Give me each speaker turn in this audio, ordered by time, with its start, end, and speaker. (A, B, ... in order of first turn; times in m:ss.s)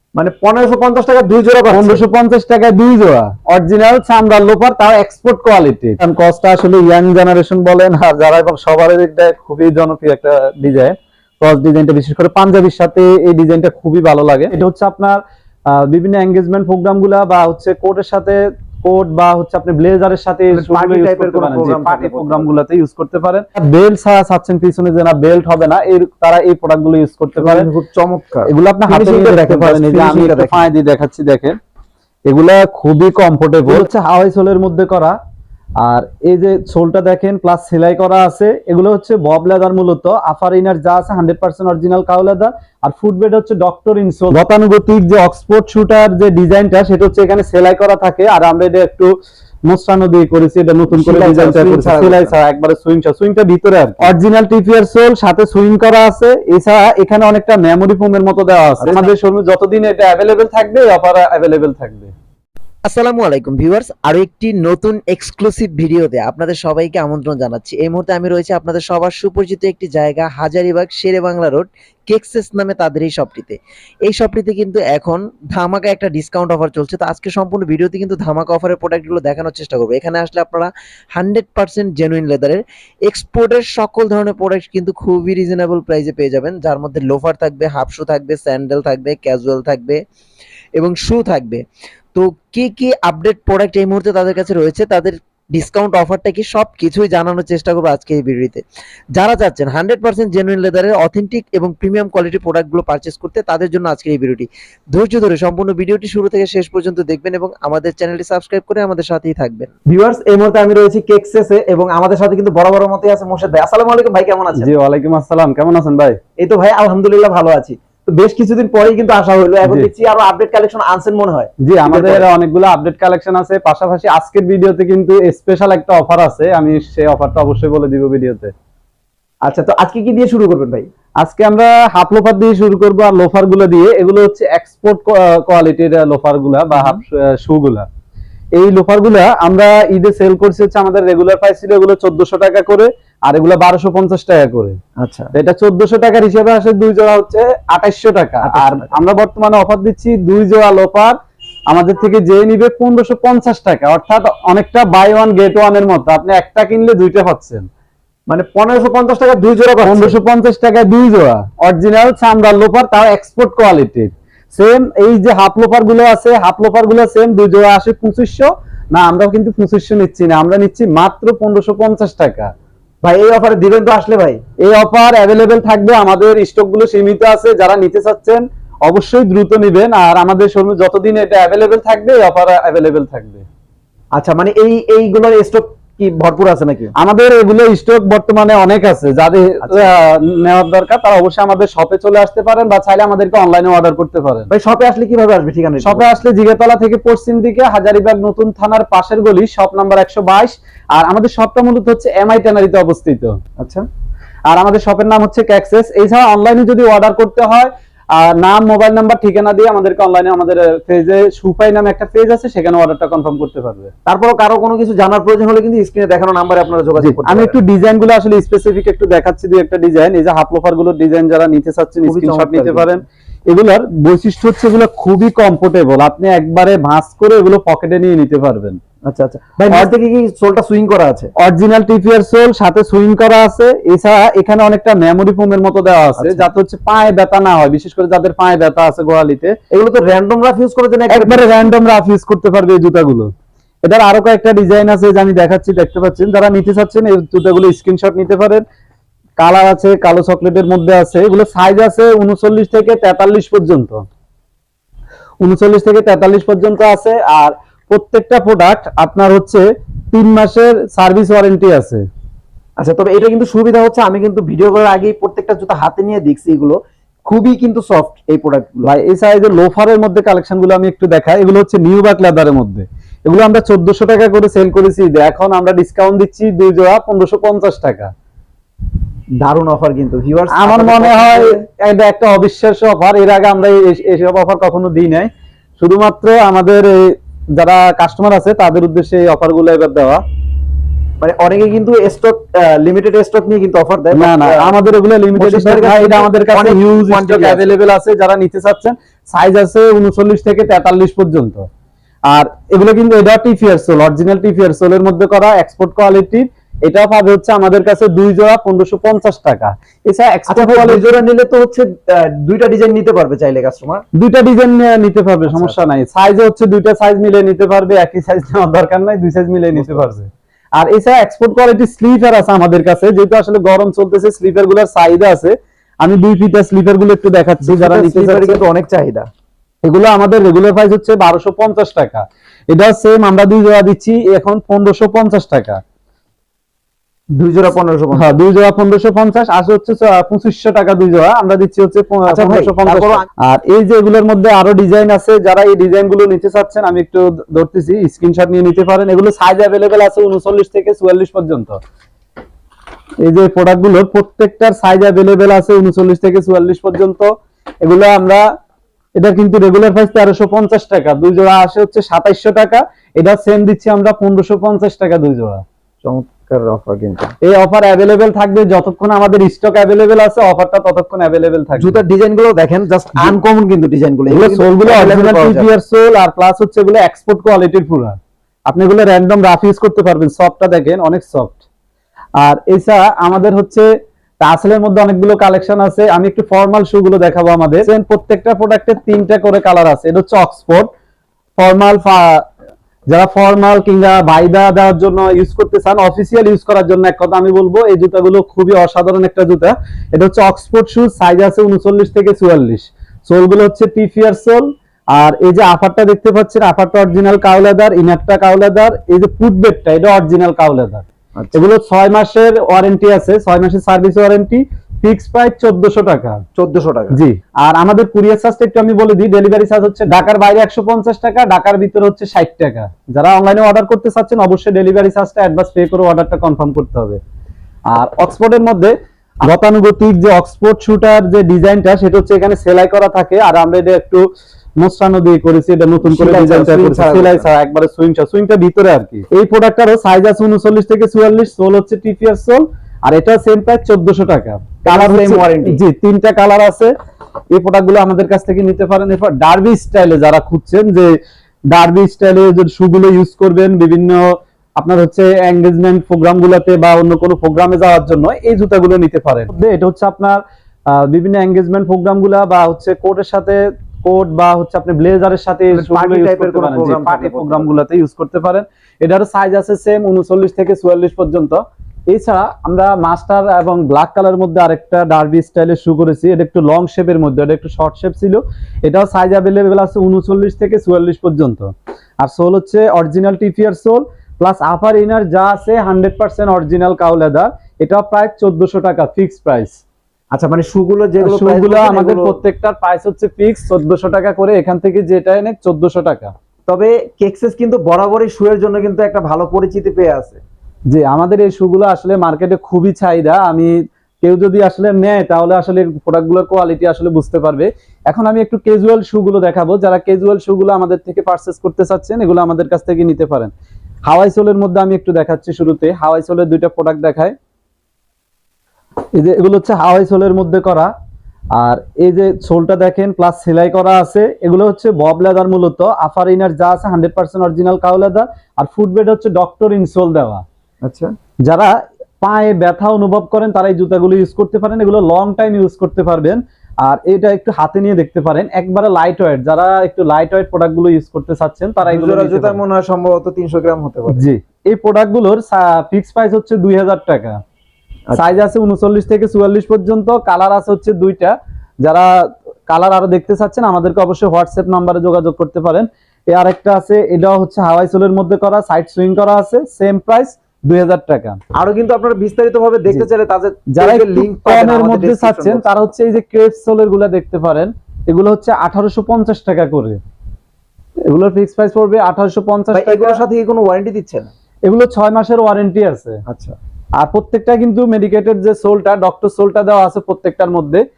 0:00.2-0:02.0 A
0:01.7-0:15.2 B
0:15.7-0:27.7 B
0:20.5-0:22.5 A
0:27.4-0:30.7 A
0:28.5-0:31.6 B
0:32.3-0:35.2 B
0:35.8-0:49.1 B
0:49.7-1:02.1 B
0:50.9-0:52.4 A
0:58.8-0:59.1 A
1:03.0-1:06.1 A
1:05.3-1:30.0 C
1:07.1-1:08.0 A
1:30.8-1:31.6 C
1:32.2-1:38.6 C
1:39.2-1:39.8 C
1:39.8-1:40.4 A
1:40.3-1:48.7 C
1:41.1-1:43.2 A
1:43.8-1:44.4 A
1:46.3-1:46.7 A
1:48.0-1:54.7 A
1:54.6-1:56.2 B
1:56.4-2:02.3 A
2:01.6-2:08.5 B
2:09.4-2:10.9 A
2:11.2-2:17.9 B
2:16.7-2:17.0 A
2:18.6-2:24.8 B
2:25.0-2:25.3 A
2:25.4-2:31.2 B
2:28.4-2:28.9 A
2:31.7-2:37.7 B
2:38.3-2:40.2 A
2:39.8-2:52.5 B
2:53.0-2:54.4 A
2:54.6-3:03.5 B
3:04.1-3:06.9 A
3:07.0-3:14.5 B
3:09.6-3:09.9 A
3:14.5-3:16.1 A
3:15.8-3:23.4 B
3:23.6-3:23.8 A
3:24.5-3:33.9 B
3:34.1-3:37.6 A
3:37.0-3:48.8 B
3:42.0-3:43.0 A
3:49.1-3:51.3 A
3:51.4-3:59.6 B
3:56.2-3:56.5 A
3:59.7-4:01.7 A
4:01.1-4:03.3 B
4:03.8-4:08.6 B
4:09.4-4:14.0 B
4:15.4-4:22.0 B
4:22.8-4:28.9 A
4:28.8-4:38.1 B
4:39.4-4:41.6 A
4:40.5-4:45.3 B
4:45.8-4:50.2 B
4:51.2-4:54.8 A
4:54.1-5:01.7 B
4:55.4-4:57.7 A
5:02.3-5:11.0 B
5:10.5-5:14.0 A
5:14.2-5:28.6 B
5:15.5-5:15.8 A
5:19.8-5:20.1 A
5:27.6-5:29.3 A
5:29.8-5:35.8 B
5:37.4-5:38.3 A
5:38.2-5:51.8 B
5:42.3-5:43.3 A
5:53.2-5:58.4 B
5:59.2-6:05.6 B
6:06.0-6:07.3 A
6:07.4-6:12.0 B
6:11.8-6:15.7 A
6:14.3-6:18.2 B
6:18.7-6:21.6 B
6:22.4-6:23.9 B
6:24.4-6:30.9 B
6:31.6-6:32.4 B
6:33.1-6:56.4 B
6:56.6-6:57.2 A
6:57.1-7:07.2 B
7:07.9-7:14.2 B
7:14.8-7:26.9 B
7:16.0-7:17.5 A
7:24.8-7:25.8 A
7:27.5-7:31.1 B
7:31.7-7:40.4 B
7:40.9-8:01.7 B
7:45.7-7:47.7 A
8:02.2-8:09.8 B
8:10.3-8:12.4 A
8:11.2-8:16.3 B
8:16.7-8:20.4 A
8:20.9-8:33.5 B
8:34.1-8:37.4 B
8:39.2-8:40.9 B
8:41.6-8:50.4 B
8:50.8-8:51.1 A
8:52.2-9:02.6 B
9:01.8-9:04.3 A
9:04.1-9:07.4 B
9:08.2-9:12.1 B
9:12.7-9:21.4 B
9:21.6-9:25.8 A
9:23.7-9:30.0 B
9:31.1-9:33.2 B
9:32.7-9:34.3 A
9:34.7-9:36.2 B
9:36.3-9:36.6 A
9:37.0-9:40.8 B